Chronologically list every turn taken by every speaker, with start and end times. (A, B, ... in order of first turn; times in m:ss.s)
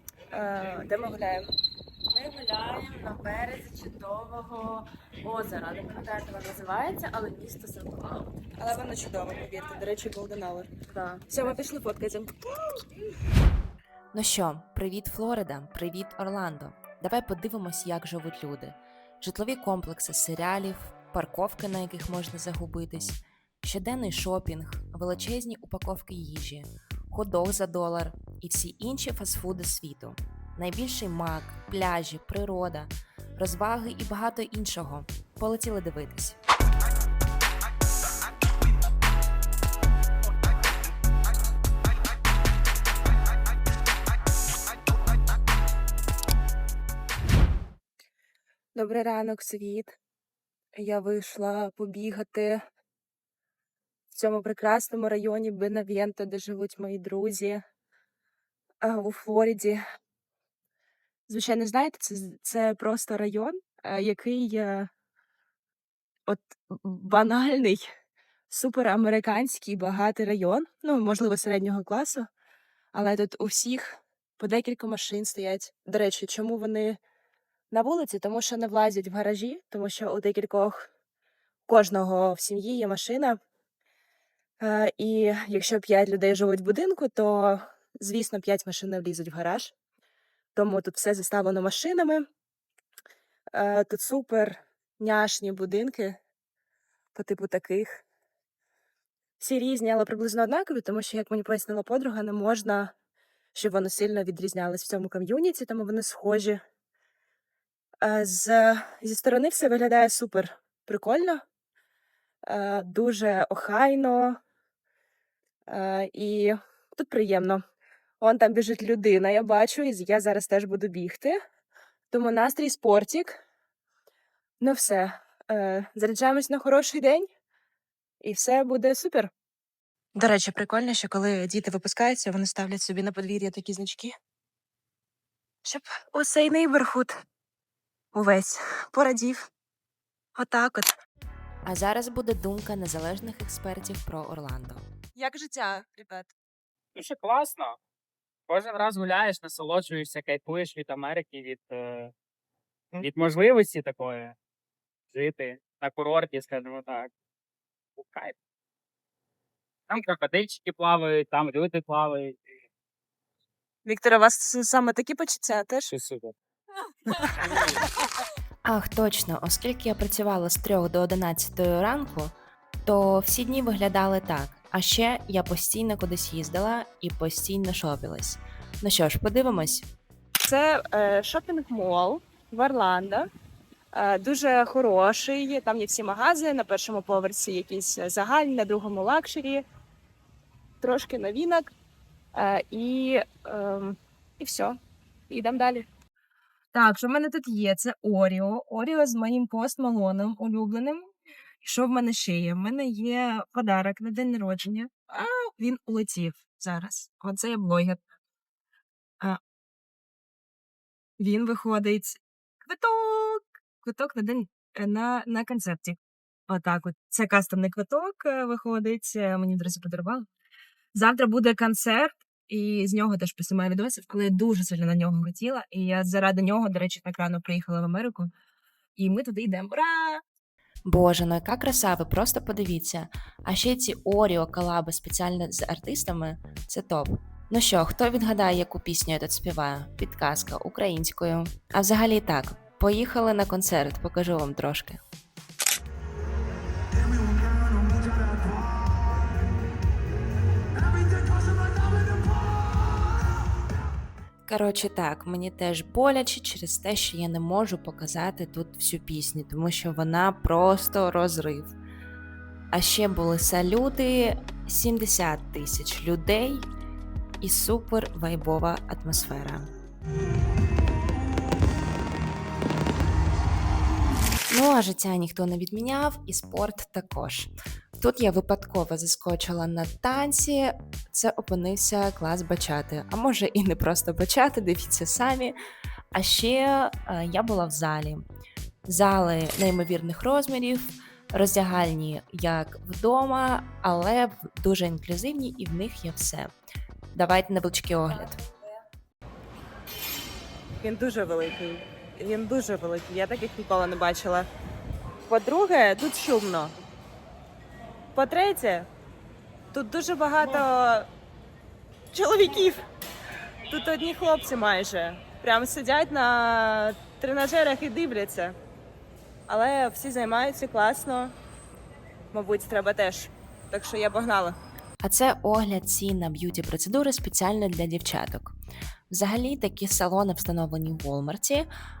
0:00.3-0:01.5 A
0:02.1-0:08.3 B
0:08.6-0:12.7 A
0:14.1-0:36.4 C
0:48.7-0:50.0 A
0:50.7-0:52.6 A
0:54.1-0:57.6 A
0:58.8-0:59.8 A
1:01.3-1:04.9 A
1:06.3-1:07.8 A
1:08.5-1:12.3 A
1:12.9-1:17.0 A
1:17.7-1:20.9 A
1:21.7-1:23.4 A
1:24.6-1:29.7 A
1:30.5-1:32.2 A
1:33.5-1:36.2 A
1:37.1-1:38.0 A
1:39.4-1:42.9 A
1:43.5-1:46.6 A
1:48.0-1:51.4 A
1:52.5-1:54.4 A
1:55.7-1:57.6 A
1:58.2-2:01.4 A
2:02.1-2:03.4 A
2:04.6-2:07.3 A
2:08.2-2:09.3 A
2:10.1-2:14.2 A
2:15.6-2:17.1 A
2:18.1-2:19.5 A
2:20.3-2:20.9 A
2:21.6-2:24.9 C
2:25.1-2:26.3 A
2:26.9-2:27.8 D
2:28.5-2:32.1 D
2:32.9-2:34.4 D
2:35.1-2:37.1 D
2:38.0-2:38.3 D
2:39.9-2:42.4 D
2:43.8-2:45.9 A
2:45.9-2:46.3 D
2:47.2-2:47.8 D
2:48.6-2:52.3 C
2:52.8-2:59.9 C
3:00.4-3:03.3 A
3:03.9-3:09.6 A
3:10.8-3:11.7 A
3:12.3-3:14.8 A
3:15.3-3:15.9 A
3:16.7-3:21.1 A
3:21.6-3:28.0 A
3:31.2-3:40.2 A
3:40.9-3:48.3 A
3:49.0-3:50.2 A
3:50.8-4:05.0 C
4:14.5-4:21.7 C
4:22.7-4:26.7 C
4:27.4-4:29.7 C
4:34.5-4:45.5 C
4:46.1-4:48.2 C
4:48.9-4:56.5 C
4:57.1-4:58.4 C
5:00.8-5:04.5 A
5:05.3-5:06.7 A
5:08.1-5:08.9 A
5:09.7-5:11.1 A
5:12.1-5:12.8 A
5:13.7-5:18.6 A
5:19.5-5:21.3 A
5:22.3-5:24.6 A
5:25.0-5:28.6 C
5:29.1-5:31.7 C